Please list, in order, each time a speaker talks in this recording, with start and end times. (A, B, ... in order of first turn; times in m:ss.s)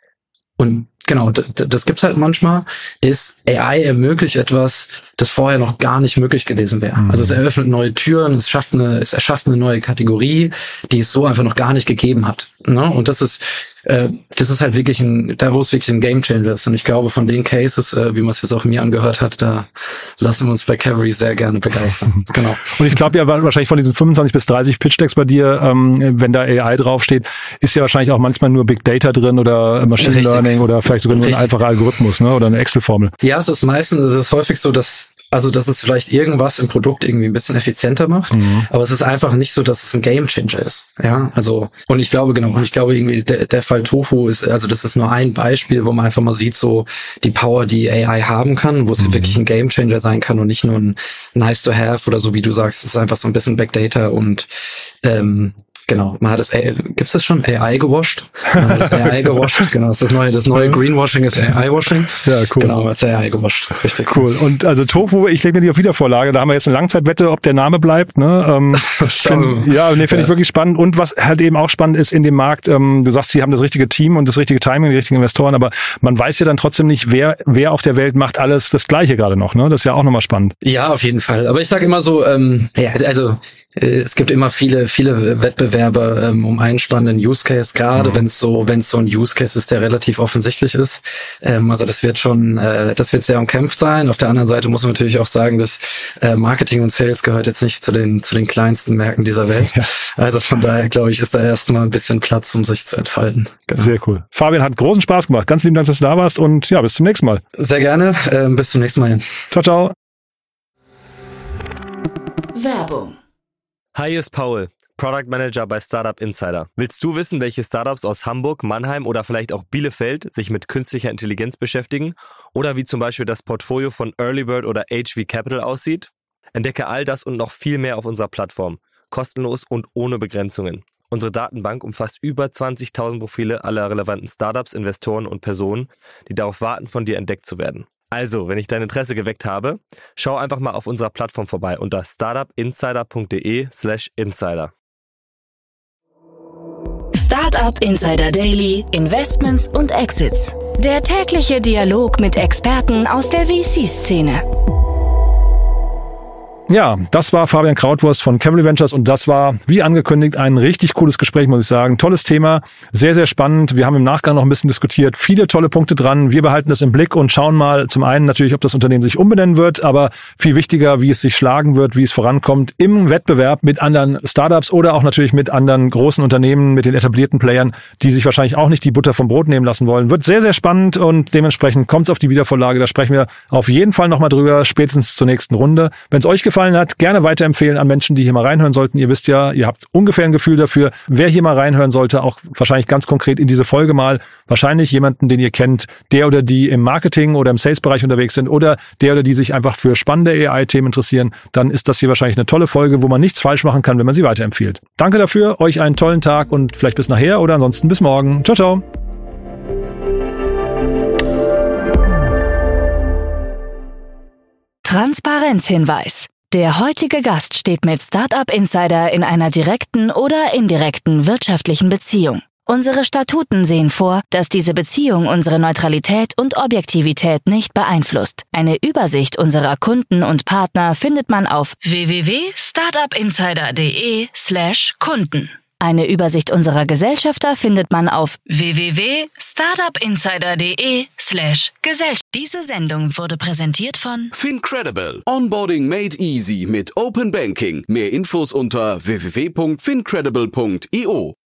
0:00.6-0:22.8 A
0:07.0-0:07.4 B
0:22.6-0:33.1 B
0:30.0-0:31.5 A
0:33.2-1:04.3 A
0:38.3-0:38.7 B
0:49.0-0:49.4 B
0:58.6-0:59.5 B
1:02.2-1:02.7 B
1:04.1-1:20.5 B
1:08.7-1:10.3 A
1:20.6-1:43.9 A
1:28.0-1:28.2 B
1:43.8-1:47.4 B
1:47.6-1:49.3 A
1:49.5-1:50.0 B
1:52.6-1:53.2 C
1:54.0-2:24.7 D
2:27.1-2:34.4 C
2:36.7-3:28.8 B
3:34.8-4:04.3 C
4:04.3-4:11.4 E